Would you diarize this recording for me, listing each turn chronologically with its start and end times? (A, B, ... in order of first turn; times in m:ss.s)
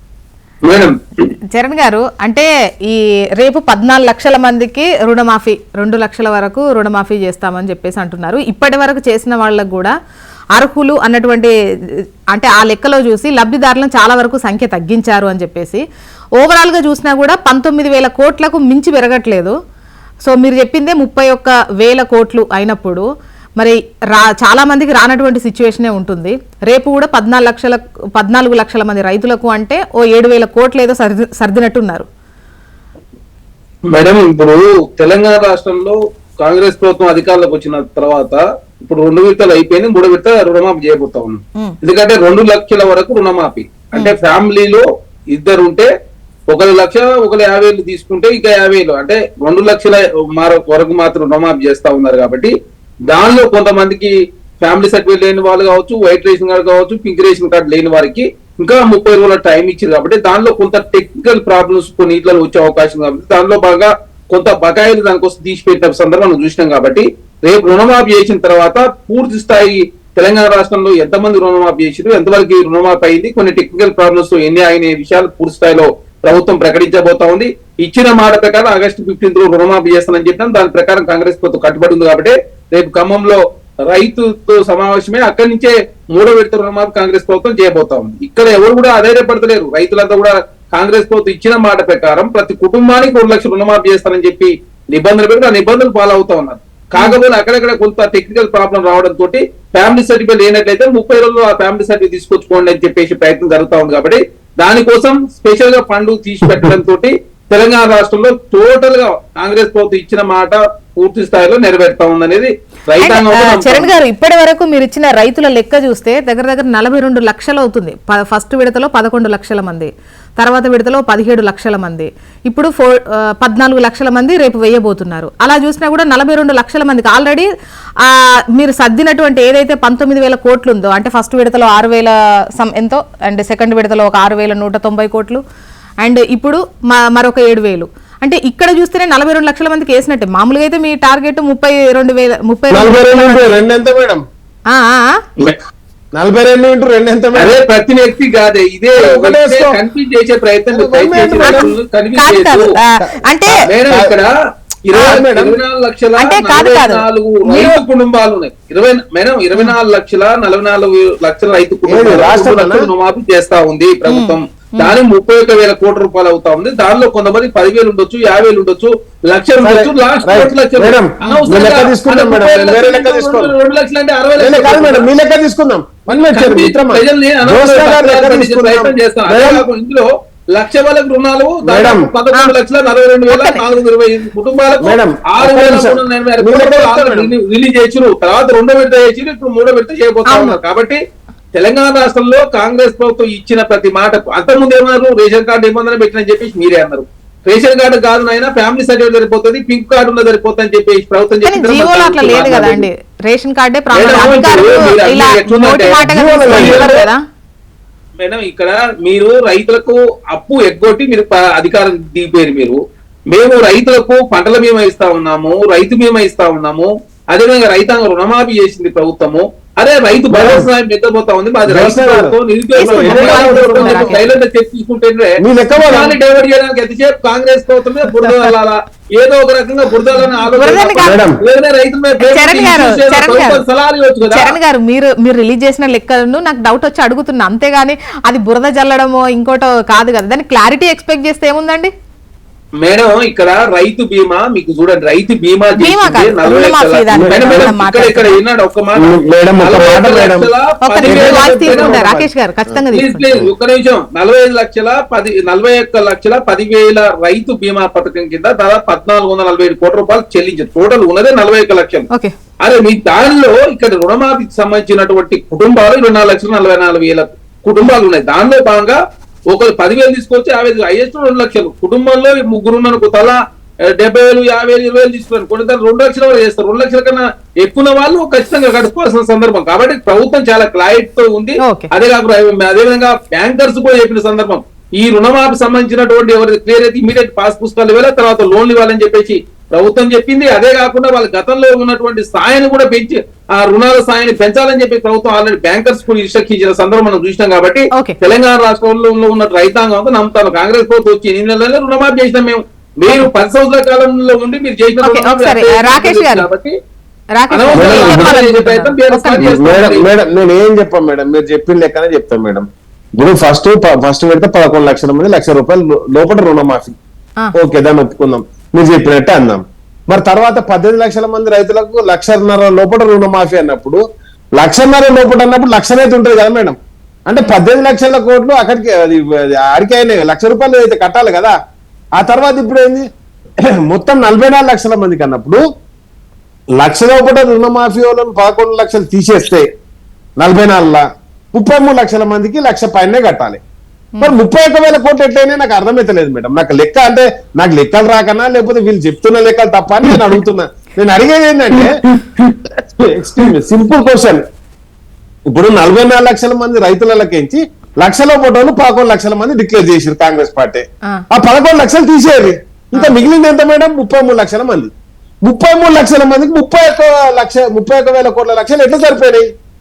0:00.7-0:01.3 A
0:01.5-0:09.9 B
0:10.5-0:11.5 B
0:12.3-0:15.8 B
0:16.4-0:19.5 B
0:20.2-0:23.1 B
0:23.6-0:32.1 B
0:33.9-0:45.9 A
0:46.5-0:52.5 A
0:53.1-1:23.4 A
1:23.9-1:53.9 A
1:53.0-2:07.5 B
2:08.0-2:15.4 B
2:16.0-2:23.6 B
2:22.7-2:24.2 C
2:24.7-2:25.2 B
2:26.2-2:27.6 C
2:27.4-2:32.7 A
2:29.0-2:29.8 C
2:30.7-2:31.7 C
2:31.4-2:33.6 B
2:33.5-2:34.1 C
2:33.6-2:34.3 A
2:34.9-2:55.1 A
2:34.9-2:35.2 B
2:34.9-2:35.6 C
2:36.2-2:37.8 B
2:41.9-2:42.9 C
2:44.1-2:44.9 B
2:49.6-2:53.5 C
2:54.4-2:59.6 C
2:56.1-3:11.0 A
3:01.6-3:02.1 C
3:03.3-3:03.6 B
3:04.8-3:07.3 C
3:10.3-3:10.6 B
3:11.6-3:22.9 A
3:21.4-3:27.2 B
3:23.9-3:27.1 A
3:26.0-3:26.9 C
3:28.2-3:32.8 A
3:33.3-3:54.6 A
3:40.3-3:40.7 C
3:41.7-3:44.2 C
3:42.8-3:44.3 B
3:45.4-3:46.2 C
3:48.2-3:48.5 B
3:50.5-3:51.2 B
3:51.0-3:51.4 C
3:52.2-3:53.6 B
3:54.3-4:01.9 B
4:02.8-4:12.0 A
4:05.8-4:08.4 B
4:07.1-4:07.7 C
4:09.0-4:10.5 C
4:10.8-4:13.3 B
4:11.0-4:12.8 C
4:12.9-4:22.1 A
4:22.6-4:29.0 A
4:29.5-4:33.4 A
4:34.0-5:06.7 A
4:41.6-4:41.9 B
5:05.0-5:06.5 B
5:07.4-5:09.6 B
5:07.5-5:10.1 A
5:07.7-5:08.4 C
5:09.4-5:12.7 C
5:13.2-5:17.0 C
5:17.6-5:24.0 C
5:24.6-5:31.6 C
5:32.2-5:33.0 C
5:33.8-5:35.6 C
5:36.8-5:39.7 C
5:40.4-5:43.6 C
5:44.2-5:54.4 C
5:55.5-6:04.9 C
6:03.0-6:03.2 B
6:05.4-6:09.5 C